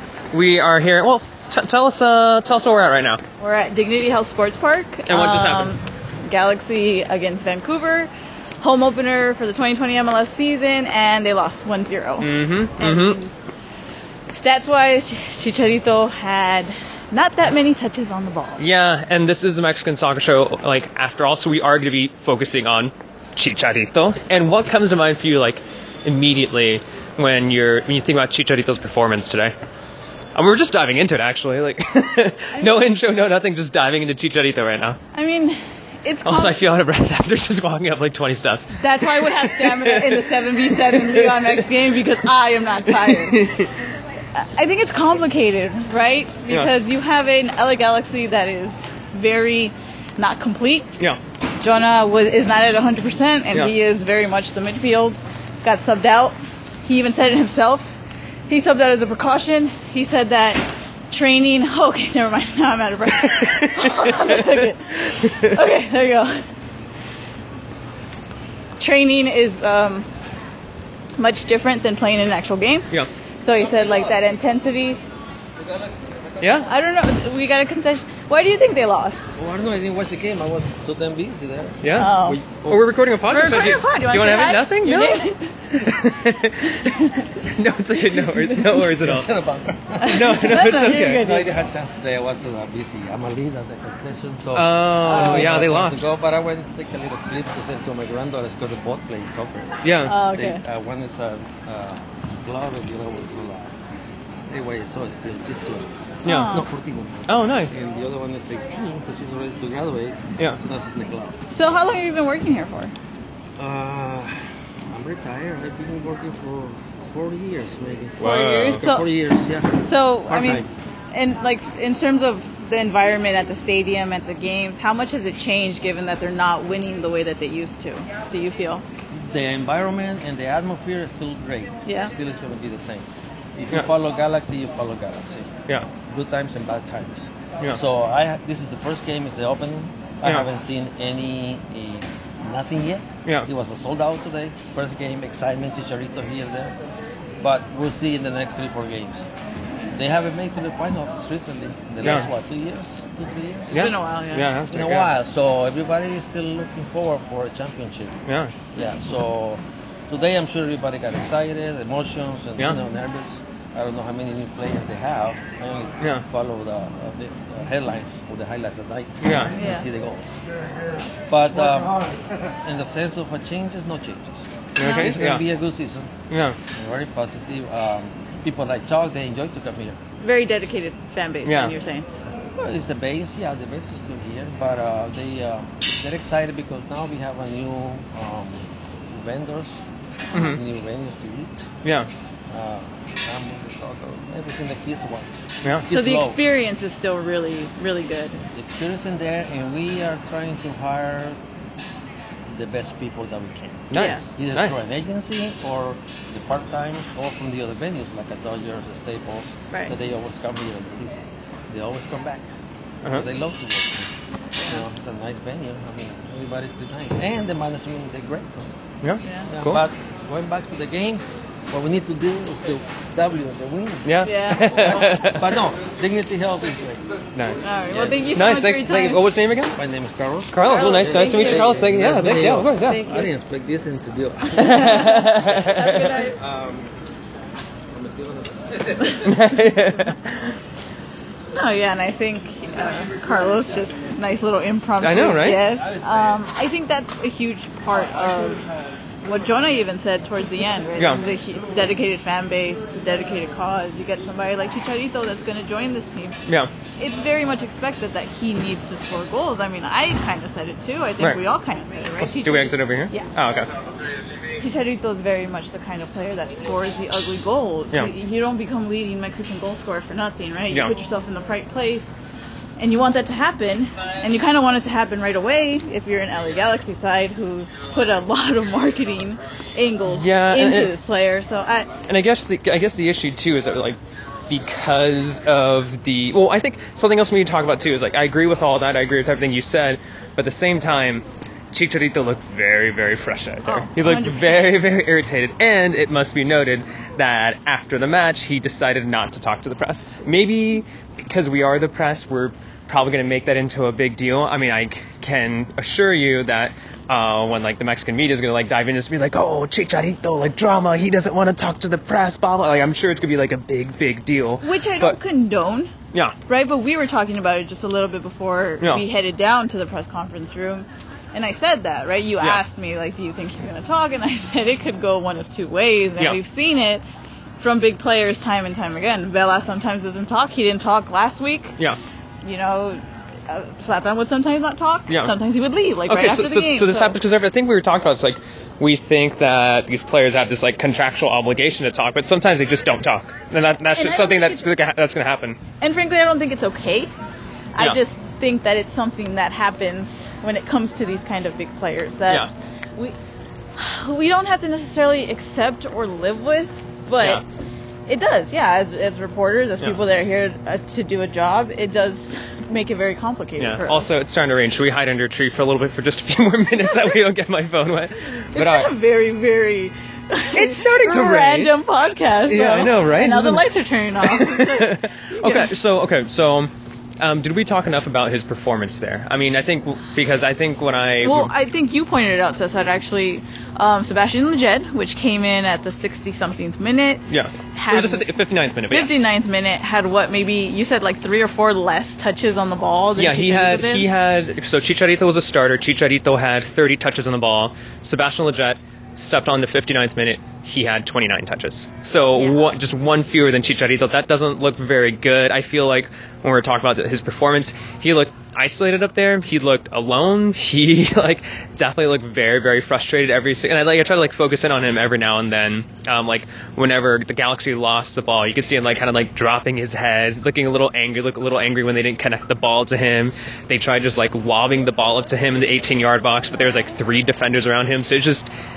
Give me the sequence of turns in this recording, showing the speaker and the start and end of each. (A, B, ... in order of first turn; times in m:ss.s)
0:00.3-0:03.2 A
0:03.4-0:13.3 B
0:05.1-0:05.7 A
0:12.2-0:13.2 A
0:14.3-0:18.6 B
0:18.6-0:29.5 A
0:30.3-0:35.0 A
0:32.5-0:32.9 B
0:35.1-0:36.6 B
0:36.2-0:41.5 A
0:38.8-0:43.5 B
0:42.9-0:43.7 A
0:44.3-0:50.9 B
0:51.6-0:58.0 B
0:58.5-1:06.4 B
1:03.2-1:04.5 A
1:05.3-1:05.5 A
1:08.8-1:10.1 B
1:11.2-1:15.0 B
1:15.6-1:16.5 C
1:16.4-1:16.7 A
1:16.6-1:19.4 B
1:19.4-1:22.8 C
1:21.8-1:29.3 A
1:21.9-1:22.4 B
1:23.3-1:25.8 B
1:26.7-1:27.4 B
1:28.1-1:28.8 B
1:28.8-1:43.7 C
1:30.0-1:31.5 B
1:30.0-1:31.3 A
1:34.5-1:36.1 A
1:35.0-1:35.5 B
1:39.8-1:40.2 A
1:40.0-1:40.6 B
1:44.5-1:51.4 C
1:46.2-1:46.6 A
1:46.2-1:46.7 B
1:47.2-1:47.8 A
1:51.5-1:52.9 B
1:53.6-2:00.7 C
1:58.2-1:58.9 A
1:58.2-1:59.0 B
1:59.8-2:08.8 B
2:09.1-2:26.8 C
2:11.8-2:12.1 B
2:27.4-2:29.3 C
2:29.9-2:33.9 C
2:32.0-2:32.3 A
2:33.7-2:34.5 B
2:33.7-2:35.1 A
2:34.7-2:38.2 C
2:38.3-2:38.5 A
2:38.7-2:50.4 C
2:49.2-2:49.5 A
2:49.5-2:49.8 B
2:51.3-3:00.0 C
2:54.8-2:55.4 A
2:56.3-2:56.6 A
3:00.2-3:02.0 B
3:01.4-3:01.7 A
3:02.6-3:11.7 C
3:10.3-3:10.6 A
3:11.8-3:12.1 A
3:12.5-3:16.4 C
3:15.9-3:18.4 B
3:18.5-3:21.4 C
3:22.5-3:32.5 C
3:23.9-3:24.8 A
3:23.9-3:24.3 B
3:33.1-3:38.7 C
3:34.6-3:34.8 B
3:39.0-3:39.8 A
3:39.2-3:39.5 B
3:39.5-3:47.1 C
3:44.0-3:45.5 A
3:44.2-3:45.0 B
3:47.3-3:47.6 A
3:47.6-3:49.2 B
3:47.8-3:48.3 C
3:48.3-3:49.8 A
3:49.8-3:57.0 C
3:50.5-3:53.0 A
3:50.6-3:51.9 B
3:52.8-3:53.3 B
3:54.6-3:56.1 A
3:54.6-3:56.3 B
3:57.9-3:59.4 C
3:59.2-4:00.2 A
4:01.5-4:08.7 B
4:05.0-4:05.6 A
4:09.2-4:16.4 B
4:17.0-4:23.3 B
4:22.2-4:23.7 A
4:24.6-4:32.1 B
4:32.8-4:41.9 B
4:40.0-4:41.0 A
4:42.1-4:44.0 A
4:44.5-5:15.2 A
4:53.6-4:54.7 B
5:14.6-5:15.9 B
5:16.5-5:27.0 B
5:27.6-5:31.8 B
5:32.4-5:37.2 B
5:36.1-5:45.6 A
5:43.9-5:44.7 B
5:45.8-5:47.1 B
5:47.7-5:53.2 B
5:53.8-5:57.4 B
5:58.1-6:04.2 B
6:03.6-6:08.9 A
6:06.9-6:07.2 B
6:08.5-6:15.7 B
6:10.5-6:11.7 A
6:12.5-6:13.7 A
6:14.2-6:21.5 A
6:21.2-6:28.3 B
6:27.3-6:29.2 A
6:28.9-6:34.1 B
6:33.2-7:08.5 A
6:42.3-6:42.7 B